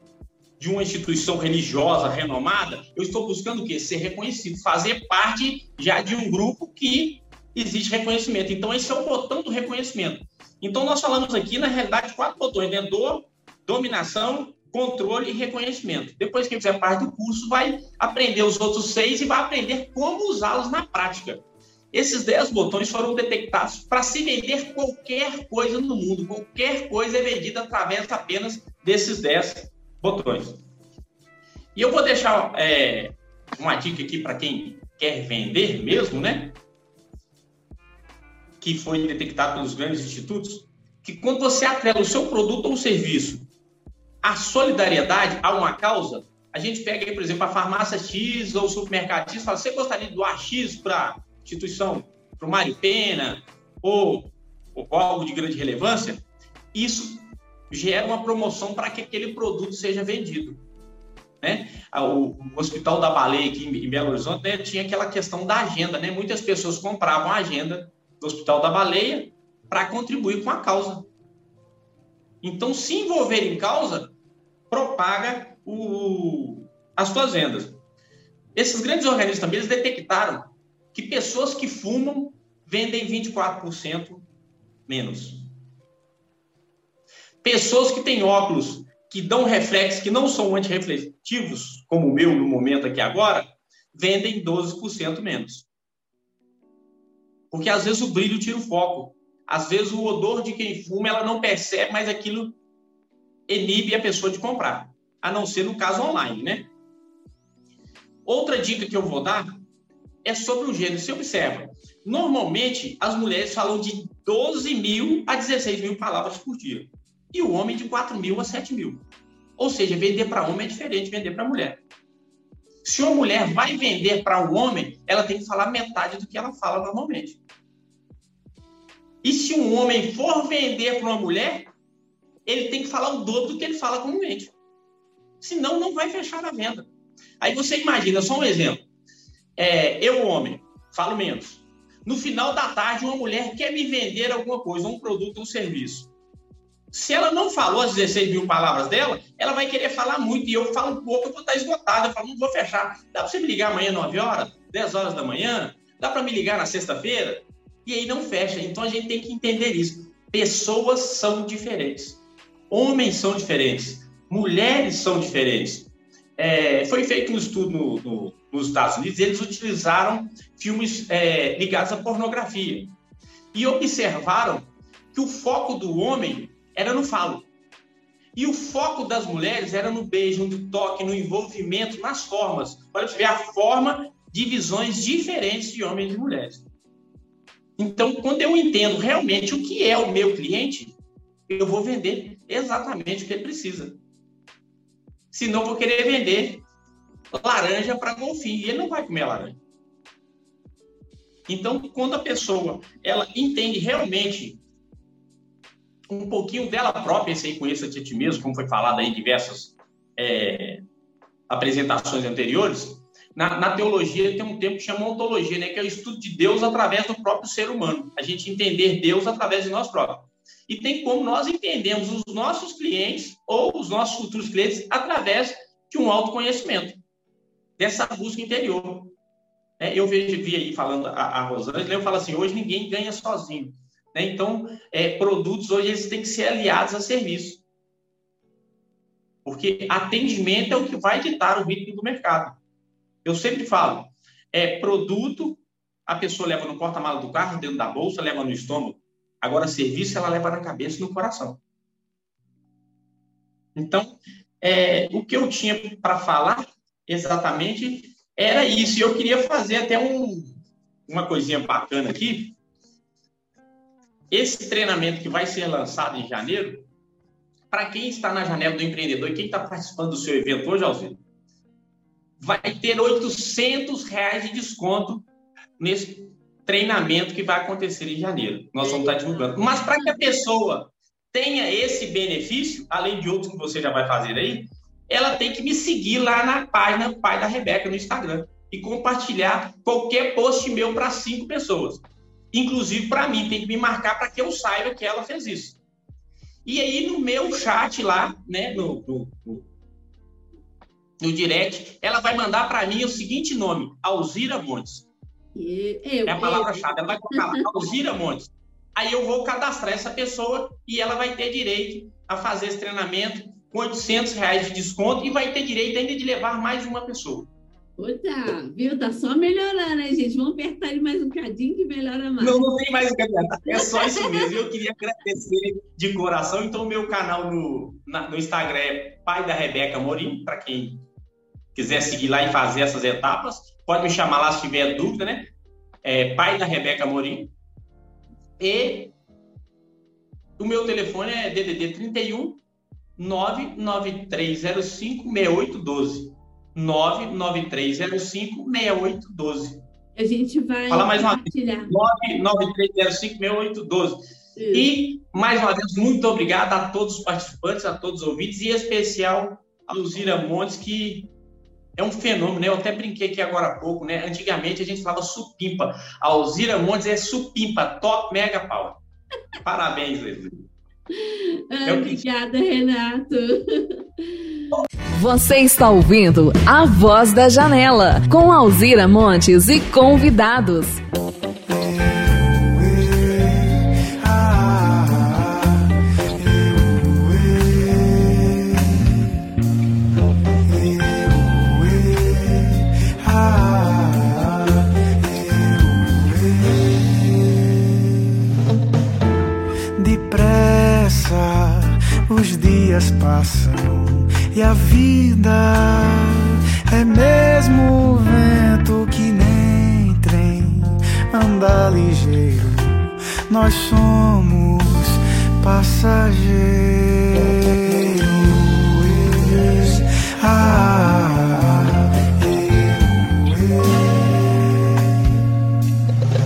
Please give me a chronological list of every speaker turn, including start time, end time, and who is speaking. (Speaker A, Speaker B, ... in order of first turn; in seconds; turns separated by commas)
Speaker A: 0.6-30.6, Speaker A: 31.7-36.5, Speaker A: 38.6-43.5, Speaker A: 44.2-60.6, Speaker A: 61.4-71.1, Speaker A: 72.4-74.1, Speaker A: 74.7-77.8, Speaker A: 78.5-84.2, Speaker A: 84.9-85.5, Speaker A: 87.4-95.7, Speaker A: 97.5-102.5, Speaker A: 103.5-106.7, Speaker A: 108.2-109.6, Speaker A: 110.2-119.0, Speaker A: 119.6-121.8, Speaker A: 122.8-127.4, Speaker A: 129.2-131.7, Speaker A: 132.4-134.5, Speaker A: 135.4-136.9, Speaker A: 137.4-138.8, Speaker A: 139.6-146.1, Speaker A: 146.9-172.9, Speaker A: 173.5-177.5, Speaker A: 178.3-186.6, Speaker A: 187.8-191.0, Speaker A: 191.5-194.0, Speaker A: 195.3-196.6, Speaker A: 197.3-199.6, Speaker A: 201.5-204.6, Speaker A: 206.1-210.8, Speaker A: 211.5-227.0, Speaker A: 227.8-229.1, Speaker A: 229.8-237.6, Speaker A: 239.4-242.6, Speaker A: 243.2-251.6, Speaker A: 253.8-260.5, Speaker A: 261.1-262.6, Speaker A: 264.3-266.9, Speaker A: 267.7-271.2, Speaker A: 272.4-275.3, Speaker A: 275.8-295.8, Speaker B: 278.8-280.3, Speaker A: 296.6-299.6, Speaker A: 301.2-305.1, Speaker B: 305.5-307.8, Speaker A: 306.3-317.5, Speaker B: 318.0-322.6, Speaker A: 322.4-331.0, Speaker B: 323.6-324.6, Speaker A: 331.7-335.5, Speaker A: 336.0-337.5, Speaker A: 338.6-339.1, Speaker A: 340.6-342.6, Speaker A: 343.2-349.8, Speaker B: 350.1-351.9, Speaker A: 350.9-361.3, Speaker B: 354.6-354.9, Speaker A: 362.0-369.0, Speaker A: 369.6-370.6, Speaker B: 371.1-374.6, Speaker A: 371.9-372.2, Speaker C: 375.1-381.0, Speaker D: 381.7-389.3, Speaker D: 390.7-398.3, Speaker D: 399.9-425.0